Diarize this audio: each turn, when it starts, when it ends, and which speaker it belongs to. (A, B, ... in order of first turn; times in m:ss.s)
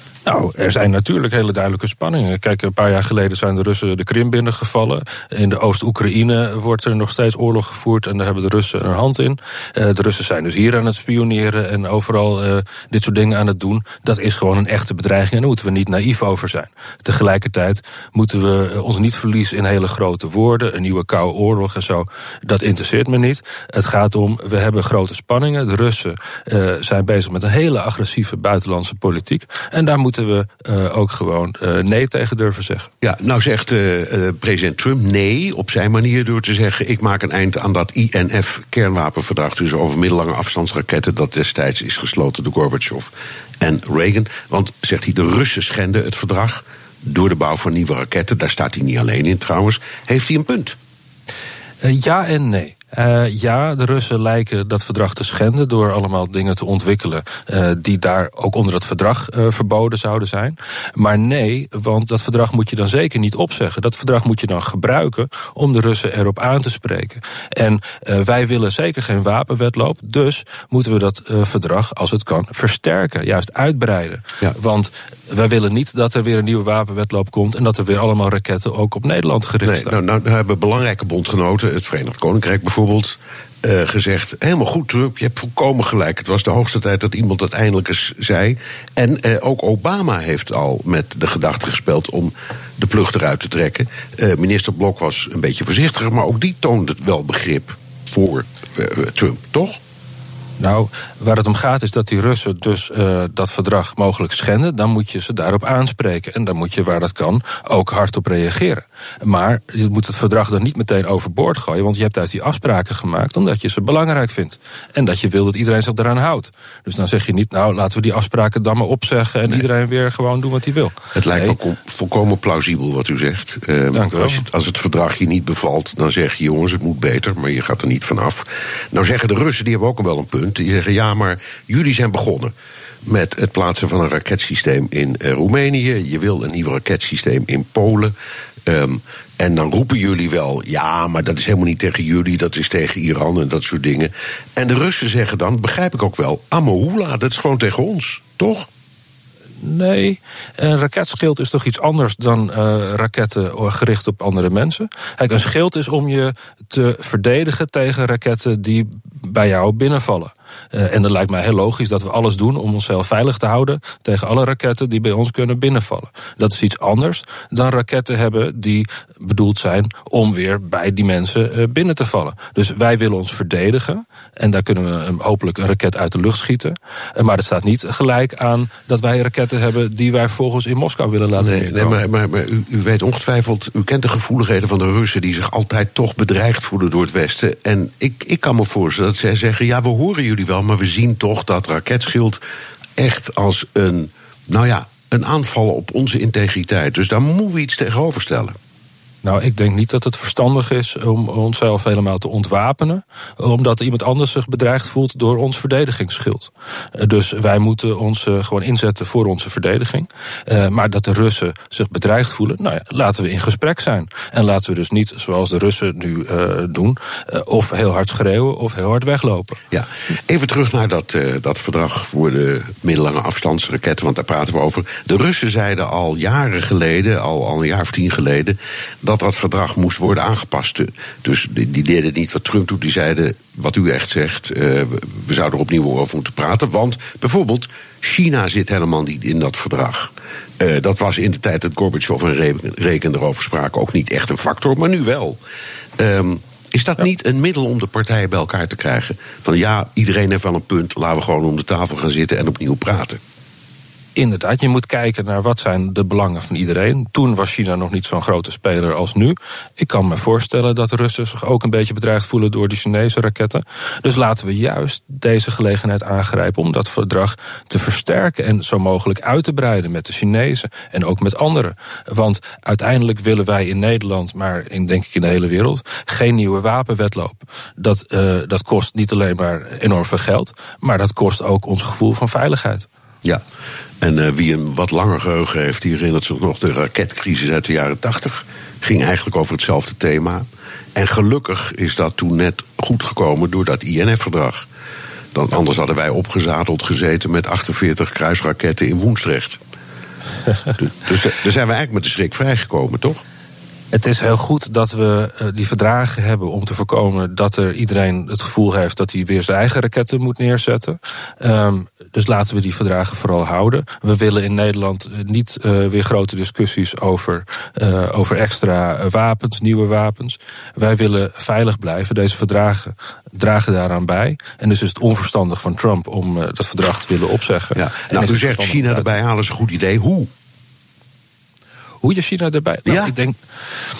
0:00.2-0:32.9 A
0:33.0-0:50.8 B
0:51.8-1:19.9 A
1:19.6-1:39.8 B
1:40.6-2:01.6 A
2:01.1-2:12.5 B
2:03.9-2:04.4 A
2:13.0-2:18.1 B
2:18.6-2:28.7 B
2:29.6-3:02.0 A
3:01.4-3:12.4 B
3:13.0-3:18.5 B
3:19.2-3:39.6 A
3:39.7-4:05.4 B
4:06.0-4:13.2 B
4:14.2-4:42.9 A
4:44.0-4:54.7 B
4:55.3-4:59.6 B
5:00.8-5:03.2 B
5:03.9-5:29.1 A
5:27.7-5:30.3 B
5:32.0-5:33.3 A
5:32.9-5:33.1 B